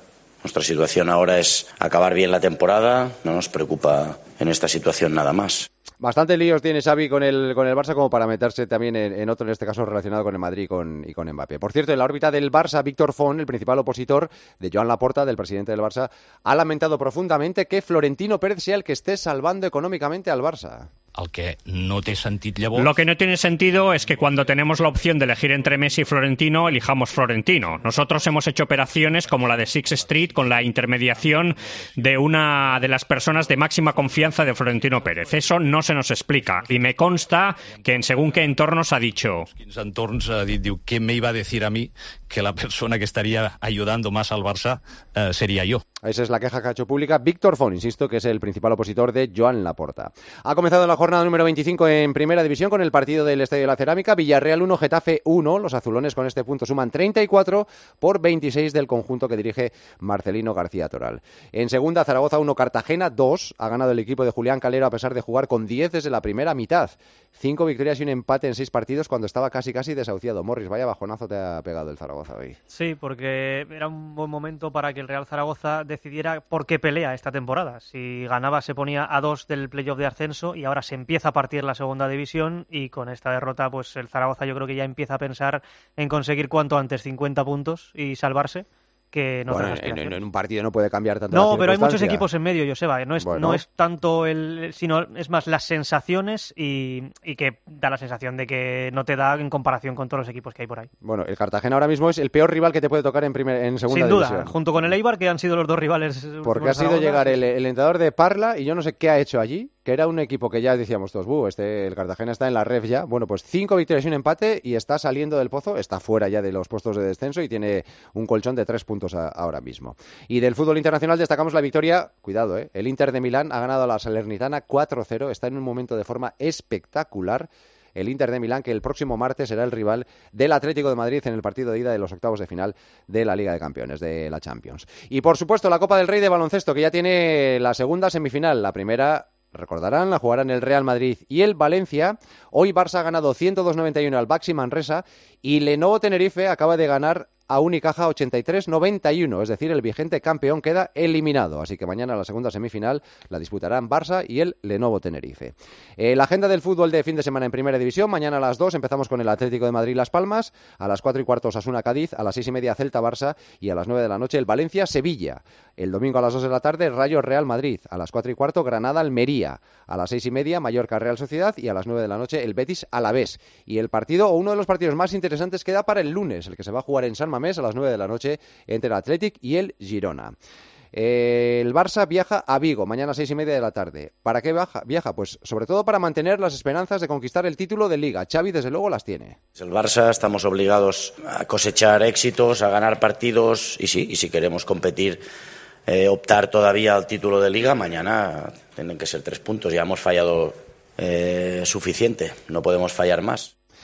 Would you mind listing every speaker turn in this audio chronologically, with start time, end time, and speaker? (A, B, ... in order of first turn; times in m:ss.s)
0:00.4-0:05.7 A
0:06.0-0:20.9 B
0:21.1-0:23.0 C
0:22.8-0:39.5 D
0:39.5-0:45.8 C
0:46.0-1:12.6 B
1:12.7-1:30.1 E
1:29.5-1:32.3 B
1:31.3-1:40.9 E
1:33.2-1:33.6 B
1:41.0-1:44.8 B
1:43.9-1:47.3 E
1:46.4-3:00.3 B
3:00.9-3:09.4 B
3:09.6-3:15.2 A
3:15.9-3:23.5 A